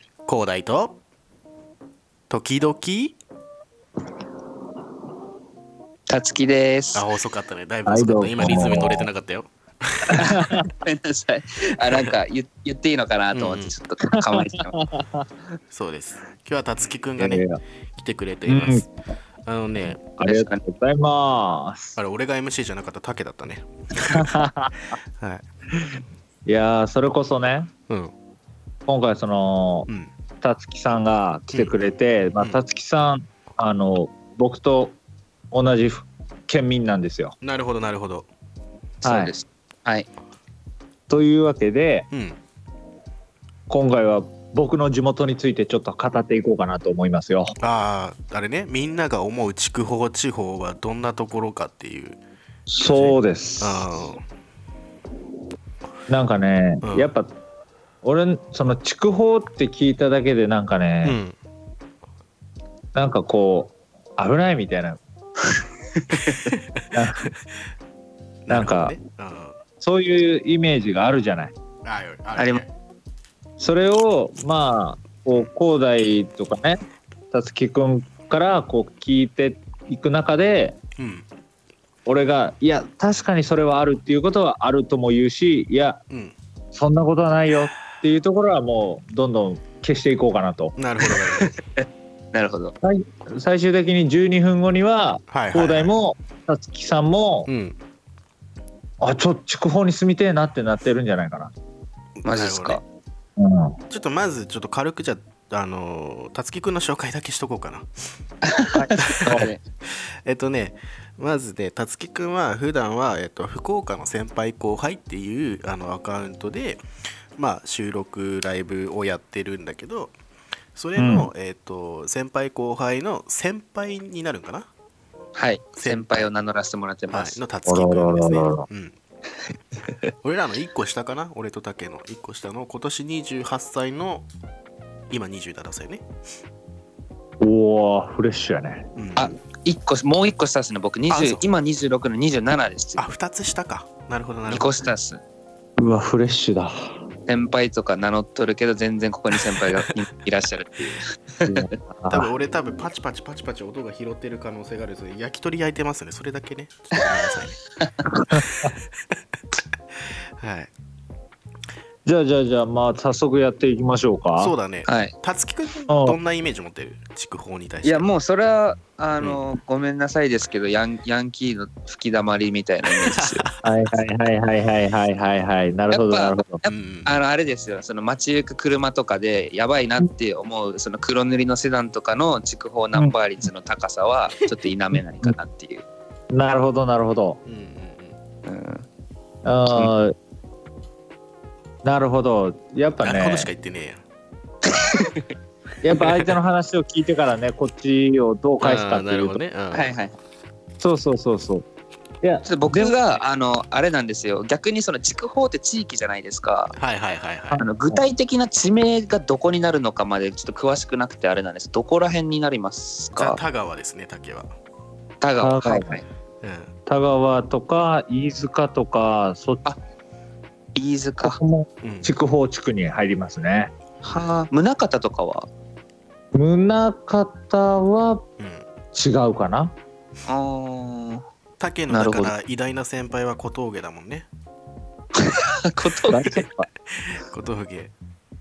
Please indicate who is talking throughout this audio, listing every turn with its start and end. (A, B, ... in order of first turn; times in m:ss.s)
0:00.3-0:01.0 A
0:02.3-0:03.2 A
0:06.1-0:07.1 B
0:06.9-0:10.4 A
0:07.9-0:09.1 C
0:10.2-0:10.6 C
0:10.2-0:14.8 B
0:13.3-0:13.8 A
0:14.3-0:15.2 C
0:15.7-0:18.9 A
0:17.2-0:17.6 C
0:18.5-0:18.9 C
0:19.5-0:20.0 A
0:19.9-0:22.0 C
0:20.2-0:20.6 B
0:22.0-0:24.4 A
0:24.1-0:24.9 C
0:25.2-0:25.4 A
0:26.5-0:27.7 C
0:28.9-0:29.9 C
0:30.4-0:35.0 C
0:31.5-0:32.6 A
0:35.5-0:37.4 C
0:37.4-0:38.3 A
0:39.0-0:40.1 B
0:39.0-0:39.3 C
0:41.1-0:42.1 C
0:42.1-0:42.4 A
0:43.7-0:47.5 C
0:47.6-0:52.2 A
0:52.7-0:54.0 C
0:52.9-0:54.2 A
0:56.1-0:57.3 C
0:56.8-0:57.1 A
0:58.0-1:01.2 C
1:01.0-1:01.4 A
1:03.0-1:05.0 C
1:06.1-1:06.6 B
1:06.9-1:07.3 C
1:08.5-1:09.6 A
1:08.5-1:09.0 C
1:09.8-1:11.5 C
1:11.8-1:12.7 A
1:12.4-1:12.6 B
1:13.6-1:16.8 C
1:17.3-1:20.8 C
1:21.0-1:21.3 A
1:22.1-1:26.0 C
1:26.1-1:26.4 A
1:26.7-1:30.8 C
1:30.8-1:31.6 A
1:31.0-1:32.7 B
1:32.8-1:37.5 C
1:35.3-1:35.9 A
1:37.5-1:37.8 A
1:39.0-1:41.5 C
1:42.2-1:42.8 A
1:42.2-1:42.8 B
1:43.4-1:43.8 C
1:43.9-1:47.9 A
1:48.5-1:49.6 B
1:48.9-1:56.8 A
1:57.4-2:00.1 A
2:00.8-2:04.7 A
2:01.0-2:01.3 C
2:05.4-2:07.4 B
2:05.8-2:06.3 A
2:07.1-2:09.0 A
2:07.7-2:08.7 C
2:10.2-2:14.3 A
2:15.1-2:16.0 A
2:17.4-2:18.9 C
2:19.0-2:19.3 A
2:19.2-2:23.1 B
2:21.1-2:21.5 A
2:23.0-2:24.8 A
2:24.5-2:25.2 B
2:25.8-2:26.8 C
2:27.3-2:31.8 B
2:29.3-2:29.9 A
2:31.5-2:32.3 C
2:32.1-2:37.6 A
2:38.2-2:38.4 C
2:40.4-2:40.7 A
2:42.1-2:44.5 C
2:44.4-2:48.1 A
2:44.9-2:45.2 B
2:45.9-2:46.2 C
2:47.8-2:53.4 B
2:49.2-2:49.5 A
2:53.1-2:53.7 A
2:53.6-2:56.6 C
2:55.9-3:05.8 B
2:56.7-2:57.1 A
3:06.3-3:07.4 C
3:07.5-3:08.2 A
3:08.5-3:08.9 B
3:09.4-3:10.2 C
3:11.8-3:13.5 C
3:13.0-3:14.0 A
3:14.7-3:15.3 B
3:15.8-3:19.4 C
3:18.6-3:19.9 A
3:19.7-3:20.2 B
3:20.8-3:21.6 C
3:22.2-3:23.0 C
3:22.5-3:26.8 B
3:26.8-3:27.6 A
3:27.5-3:28.0 C
3:27.6-3:33.4 B
3:33.2-3:34.5 A
3:35.2-3:36.0 B
3:35.4-3:36.0 C
3:36.4-3:36.7 A
3:36.9-3:39.7 C
3:40.8-3:41.4 B
3:41.2-3:43.7 C
3:41.8-3:42.1 A
3:44.0-3:45.5 B
3:46.4-3:48.2 C
3:48.4-3:48.6 A
3:48.9-3:49.7 C
3:50.3-3:51.2 B
3:51.6-3:54.3 A
3:51.9-3:52.4 B
3:55.2-3:56.7 B
3:56.1-3:56.5 A
3:57.0-3:57.9 A